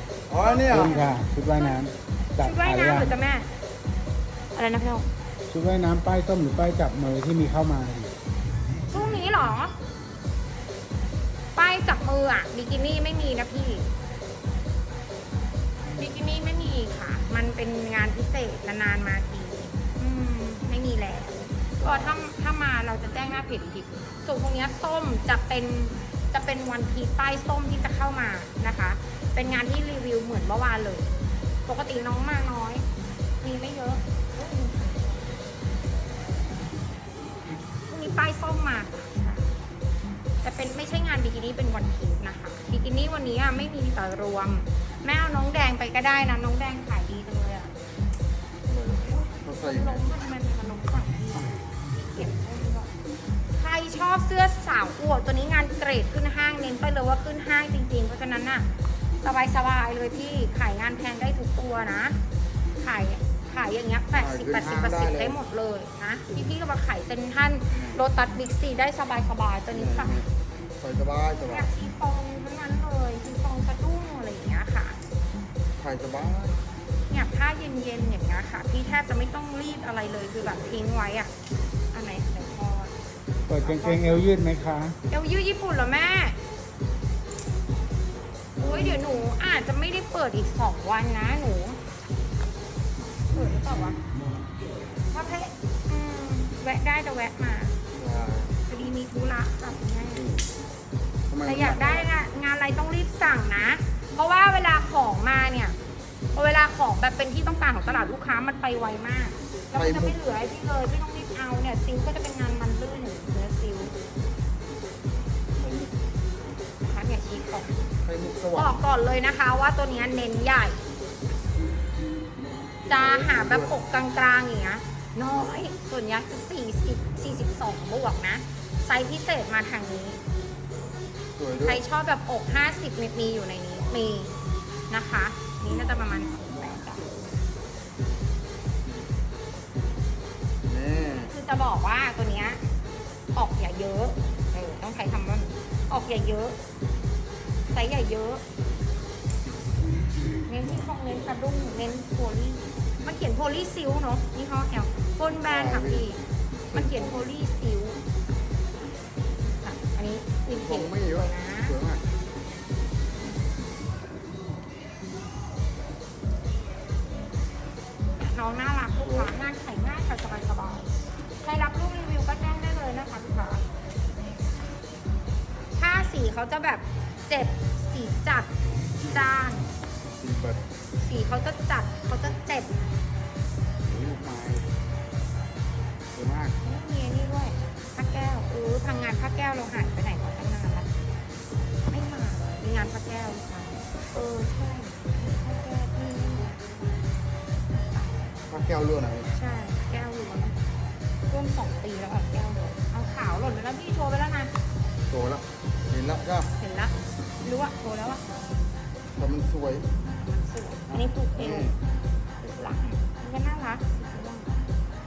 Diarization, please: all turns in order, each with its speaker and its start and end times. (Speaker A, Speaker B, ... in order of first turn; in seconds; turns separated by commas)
Speaker A: 0.3-1.0, Speaker B: 0.4-1.8, Speaker C: 0.7-3.1, Speaker B: 2.4-3.5, Speaker B: 4.5-5.1, Speaker C: 5.5-8.1, Speaker B: 8.9-9.7, Speaker B: 11.6-13.9, Speaker B: 15.9-31.1, Speaker A: 21.8-22.2, Speaker B: 31.7-32.9, Speaker B: 33.4-35.4, Speaker B: 37.9-39.5, Speaker B: 40.4-47.7, Speaker A: 48.7-50.0, Speaker B: 49.1-51.6, Speaker B: 52.1-52.9, Speaker B: 53.5-58.7, Speaker B: 59.2-62.2, Speaker B: 62.8-70.2, Speaker A: 64.1-65.4, Speaker A: 67.7-68.0, Speaker A: 69.7-70.3, Speaker A: 70.8-71.7, Speaker B: 71.5-75.0, Speaker A: 75.8-76.6, Speaker B: 77.1-81.3, Speaker B: 81.9-82.9, Speaker C: 83.5-85.0, Speaker B: 83.6-84.3, Speaker B: 85.1-86.4, Speaker A: 88.6-89.1, Speaker B: 88.6-91.8, Speaker B: 93.3-94.0, Speaker B: 95.1-97.8, Speaker A: 98.0-98.5, Speaker B: 98.7-100.2, Speaker A: 100.1-100.5, Speaker A: 101.3-102.1, Speaker B: 101.4-105.8, Speaker B: 106.3-114.0, Speaker A: 109.7-110.2, Speaker A: 115.6-115.9, Speaker B: 116.8-117.8, Speaker A: 118.0-118.8, Speaker B: 118.5-120.8, Speaker A: 122.9-123.7, Speaker B: 122.9-130.2, Speaker A: 131.4-131.8, Speaker B: 131.6-134.4, Speaker B: 134.9-137.1, Speaker A: 140.6-141.3, Speaker B: 141.2-142.6, Speaker B: 143.3-146.6, Speaker B: 147.7-148.4, Speaker B: 150.5-156.2, Speaker A: 155.4-157.3, Speaker B: 156.7-158.0, Speaker B: 159.4-161.8, Speaker A: 160.5-162.0, Speaker B: 168.2-173.6, Speaker A: 169.0-169.3, Speaker B: 175.7-178.5, Speaker B: 179.0-179.7, Speaker A: 180.2-180.6, Speaker B: 181.0-182.8, Speaker A: 183.8-184.7, Speaker A: 186.1-186.6, Speaker B: 186.6-190.9, Speaker B: 191.9-197.0, Speaker B: 197.8-198.4, Speaker A: 198.5-199.3, Speaker B: 199.3-200.6, Speaker B: 201.3-204.5, Speaker A: 205.1-206.5, Speaker B: 206.6-208.5, Speaker A: 209.2-209.9, Speaker B: 210.0-211.8, Speaker A: 211.4-211.8, Speaker B: 212.4-214.6